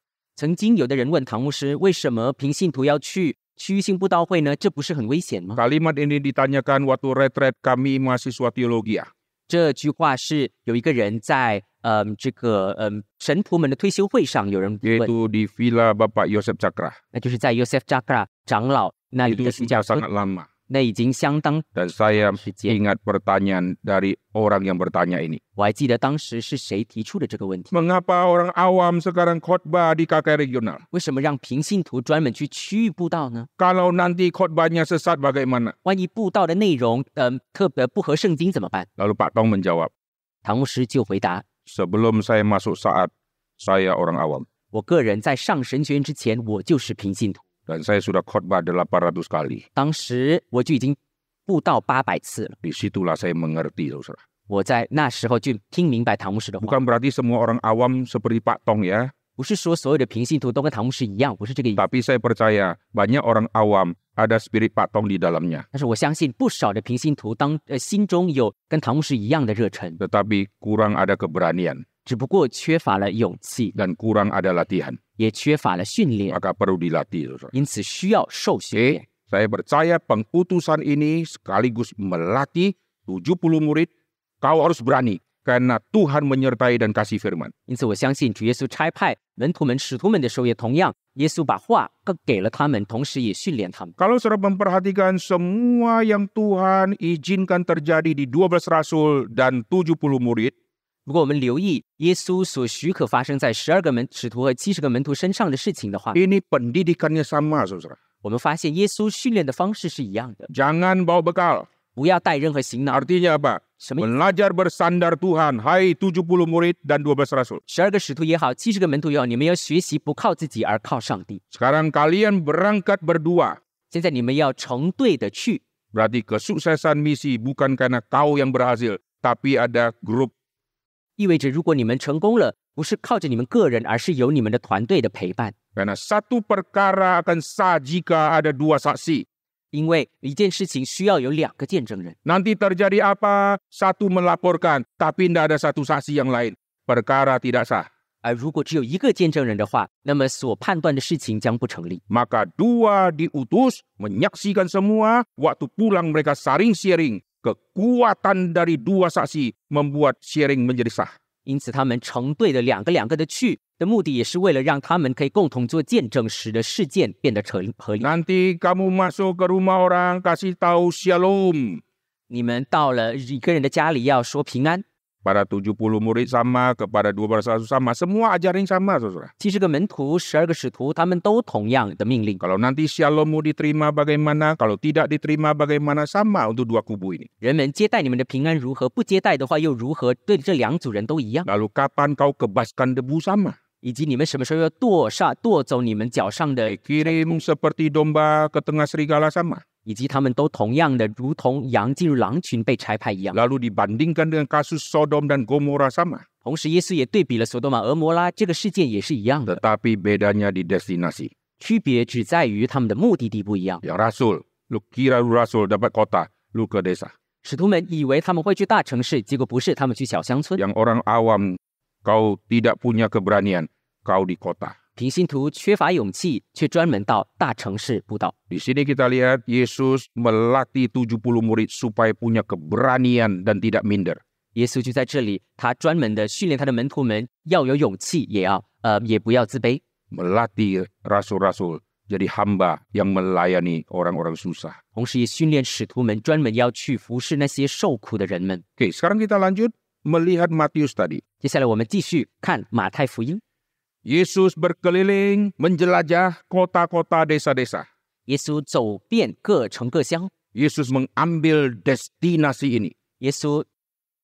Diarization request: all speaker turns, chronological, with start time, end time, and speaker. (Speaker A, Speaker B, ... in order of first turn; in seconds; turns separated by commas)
Speaker A: 0.4-5.6, Speaker B: 5.5-9.1, Speaker A: 9.5-15.1, Speaker B: 14.8-16.9, Speaker A: 17.1-20.0, Speaker B: 19.3-20.5, Speaker A: 20.7-21.7, Speaker B: 21.7-25.4, Speaker A: 22.2-22.8, Speaker A: 25.6-27.7, Speaker B: 27.7-30.8, Speaker A: 30.9-33.5, Speaker B: 33.6-35.7, Speaker A: 35.8-38.9, Speaker B: 39.0-39.9, Speaker A: 40.4-41.4, Speaker B: 41.7-44.5, Speaker A: 44.7-47.4, Speaker B: 47.7-49.6, Speaker A: 49.7-52.5, Speaker B: 52.6-54.2, Speaker A: 54.5-56.7, Speaker B: 56.6-59.1, Speaker A: 59.4-61.8, Speaker B: 61.8-65.7, Speaker A: 65.7-70.0, Speaker B: 70.0-71.8, Speaker A: 72.0-73.7, Speaker B: 73.7-75.0, Speaker A: 75.2-76.4, Speaker B: 76.3-77.5, Speaker A: 77.5-79.0, Speaker B: 78.7-83.9, Speaker B: 84.4-87.5, Speaker A: 87.7-93.9, Speaker B: 94.0-100.5, Speaker A: 101.0-106.2, Speaker B: 106.1-108.0, Speaker A: 108.2-110.5, Speaker B: 110.5-111.7, Speaker A: 111.9-113.0, Speaker B: 112.9-117.6, Speaker A: 113.8-114.0, Speaker A: 117.7-121.4, Speaker B: 121.5-123.6, Speaker A: 123.9-125.6, Speaker B: 125.9-130.3, Speaker A: 131.2-135.5, Speaker B: 135.8-139.3, Speaker A: 139.7-142.2, Speaker B: 142.2-147.9, Speaker A: 148.2-152.0, Speaker B: 152.1-161.1, Speaker A: 161.4-168.1, Speaker B: 168.0-171.8, Speaker A: 172.3-174.8, Speaker B: 175.2-179.3, Speaker A: 179.4-182.4, Speaker B: 182.4-187.3, Speaker A: 187.4-191.5, Speaker B: 191.4-193.5, Speaker A: 193.8-197.4, Speaker B: 196.7-199.6, Speaker A: 199.8-203.4, Speaker B: 203.3-206.2, Speaker A: 206.4-209.6, Speaker B: 209.5-211.3, Speaker A: 211.6-213.8, Speaker B: 213.8-217.1, Speaker A: 217.4-220.6, Speaker B: 220.6-224.7, Speaker A: 225.0-228.3, Speaker B: 228.5-234.2, Speaker A: 234.5-239.8, Speaker B: 240.1-244.8, Speaker A: 244.9-248.6, Speaker B: 248.8-251.2, Speaker A: 251.4-253.4, Speaker B: 254.1-257.9, Speaker A: 258.3-260.3, Speaker B: 260.5-262.9, Speaker A: 263.2-263.6